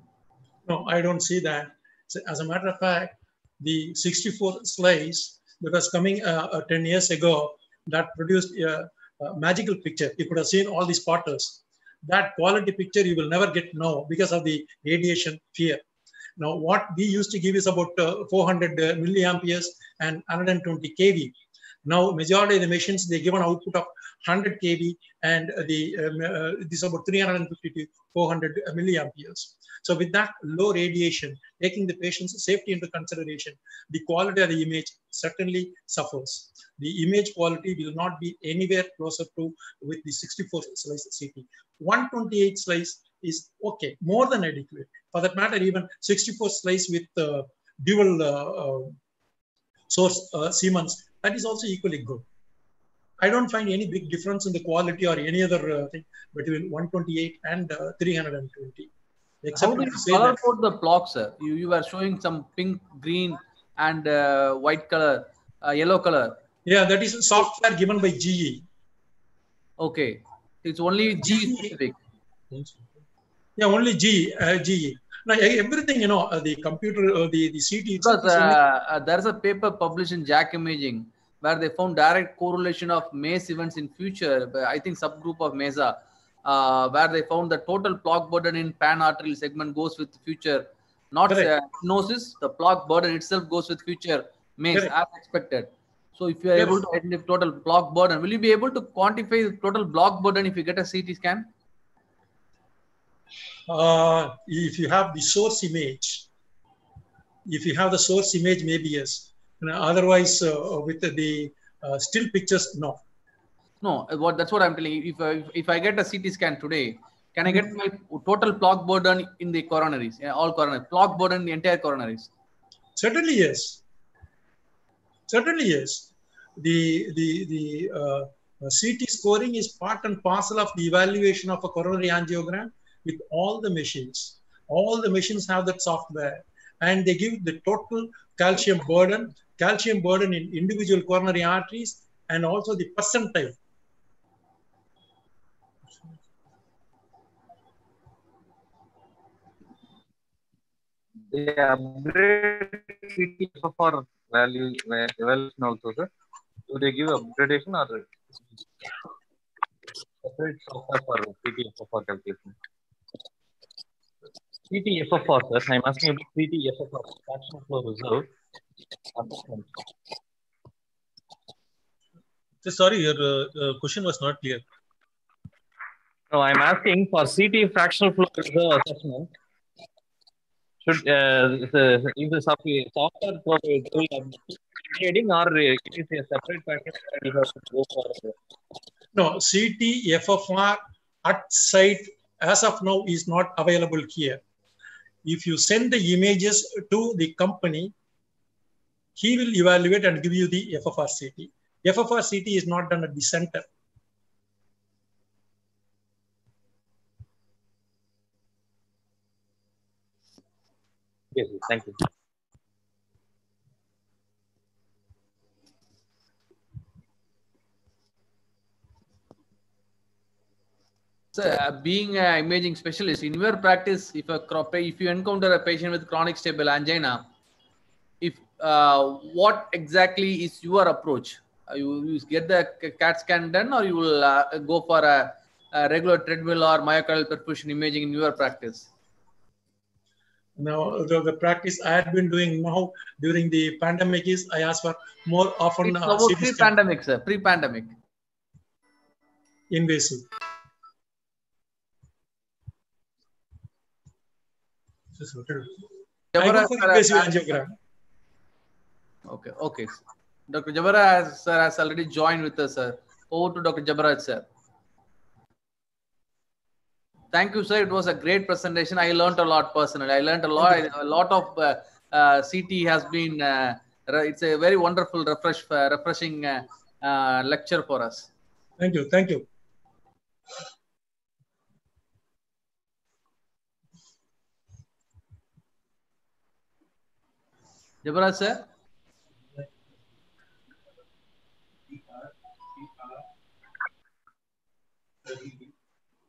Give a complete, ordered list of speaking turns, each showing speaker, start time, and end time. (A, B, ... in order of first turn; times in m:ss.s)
0:00.7-0:15.8 A
0:16.4-0:21.3 A
0:21.8-0:49.0 A
0:49.9-0:52.2 A
0:53.2-0:58.9 A
0:59.4-1:00.4 A
0:59.6-1:06.4 B
1:06.6-1:08.6 A
1:09.8-1:12.0 B
1:11.2-1:11.7 A
1:12.5-1:12.8 A
1:13.6-1:18.6 A
1:18.0-1:41.5 B
1:31.3-1:31.6 A
1:36.6-1:36.8 A
1:43.7-1:46.2 A
1:47.5-1:53.0 A
1:53.8-2:02.3 B
2:03.0-2:03.8 A
2:05.3-2:23.6 A
2:31.3-2:36.1 C
2:36.7-2:38.1 C
2:40.2-2:42.6 C
2:44.7-2:48.3 C
2:49.2-2:49.7 C
2:52.6-2:54.6 D
2:56.3-2:59.3 C
3:00.8-3:08.3 C
3:09.2-3:14.4 A
3:15.2-3:17.9 A
3:19.2-3:23.6 A
3:31.4-3:32.0 C
3:41.4-3:47.3 B
3:48.2-3:58.9 B
4:00.6-4:06.7 A
4:05.8-4:07.9 B
4:09.7-4:10.2 A
4:15.2-4:15.8 A
4:16.3-4:17.4 B
4:16.4-4:17.7 A
4:19.3-4:24.4 B
4:27.3-4:38.3 B
4:38.8-4:39.4 A
4:48.0-4:48.7 B